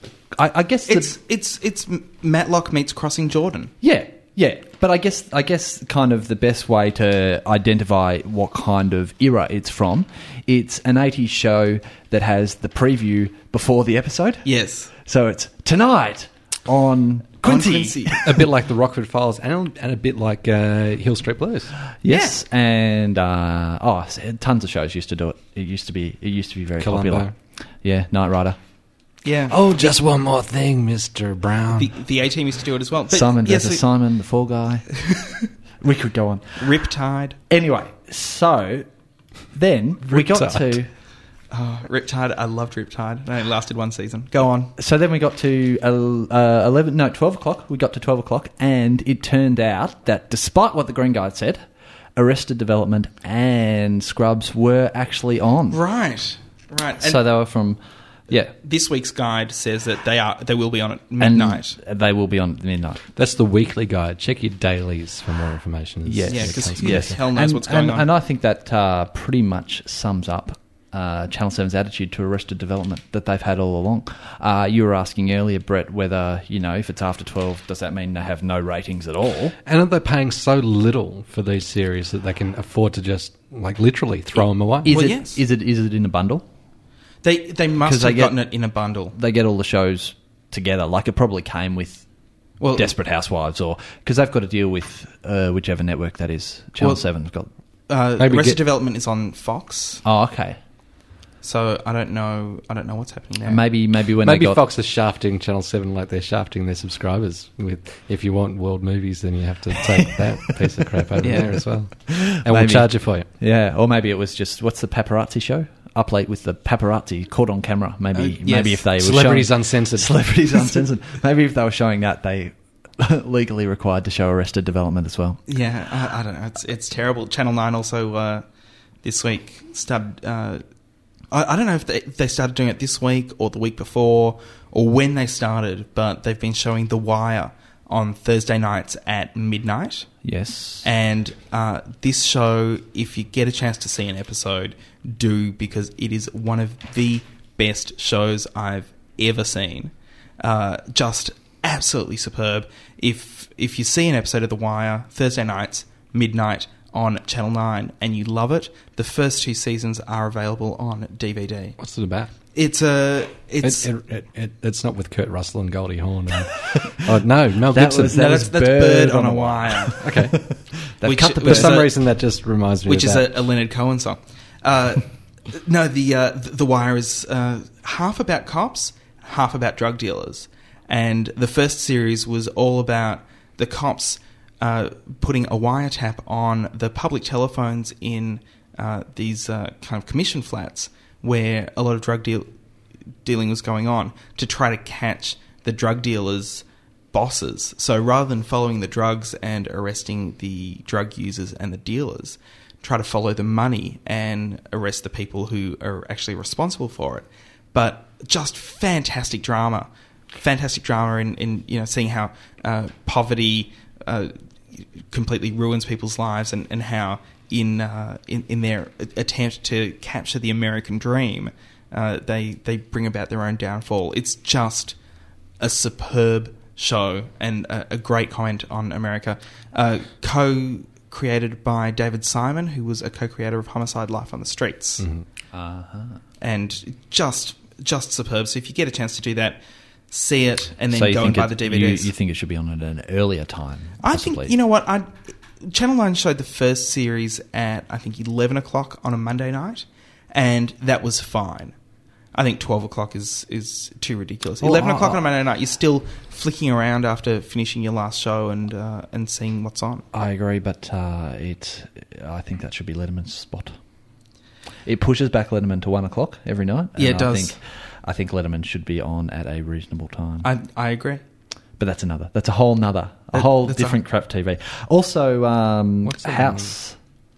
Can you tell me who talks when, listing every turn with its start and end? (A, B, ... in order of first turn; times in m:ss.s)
0:00.4-0:01.1 A
0:00.9-0:03.7 B
0:03.8-0:14.5 A
0:14.4-0:14.9 B
0:15.0-0:18.4 A
0:17.4-0:18.2 B
0:18.2-0:21.7 C
0:22.0-0:28.6 A
0:22.1-0:22.4 B
0:26.8-0:27.3 C
0:29.2-0:30.0 B
0:29.5-0:31.9 C
0:31.7-0:33.8 B
0:33.1-0:34.9 A
0:35.8-0:36.6 A
0:36.6-0:37.4 B
0:37.5-0:38.9 A
0:39.5-0:40.9 A
0:40.0-0:40.8 C
0:41.5-0:44.7 B
0:44.8-0:51.6 A
0:52.2-0:55.8 A
0:55.7-0:57.2 B
0:57.0-0:58.5 A
0:58.6-1:01.8 B
1:01.2-1:03.0 A
1:03.2-1:07.2 C
1:06.1-1:19.6 A
1:06.3-1:08.1 B
1:19.6-1:24.9 C
1:24.8-1:26.4 A
1:24.9-1:25.4 B
1:27.2-1:29.2 B
1:27.8-1:28.4 A
1:29.1-1:32.0 A
1:32.6-1:32.9 B
1:32.7-1:37.5 A
1:37.9-1:40.0 B
1:38.2-1:38.6 C
1:40.0-1:40.6 A
1:41.4-1:43.6 B
1:43.4-1:44.6 A
1:44.2-1:53.3 C
1:51.2-1:51.6 B
1:52.1-2:05.4 A
1:58.2-1:58.8 B
1:59.0-2:00.8 C
2:05.5-2:08.4 B
2:09.0-2:10.6 B
2:11.3-2:20.1 B
2:20.2-2:20.9 A
2:20.8-2:41.8 B
2:41.8-2:42.3 C
2:42.5-2:43.9 B
2:43.6-2:48.2 C
2:47.7-2:51.8 A
2:48.1-2:50.0 B
2:50.0-2:50.4 C
2:51.0-2:52.0 B
2:51.4-2:53.4 C
2:52.9-3:12.5 B
3:13.2-3:45.0 B
3:45.6-3:55.0 B
3:55.0-3:55.3 C
3:55.5-3:56.2 A
3:56.4-3:59.6 B
4:00.1-4:02.1 B
4:00.9-4:04.6 A
4:04.0-4:11.7 B
4:12.3-4:20.1 B
4:14.6-4:15.2 A
4:20.1-4:23.8 A
4:24.9-4:30.5 A
4:27.0-4:27.6 B
4:30.4-4:31.2 B
4:31.8-4:37.0 A
4:33.3-4:34.0 B
4:36.0-4:36.7 C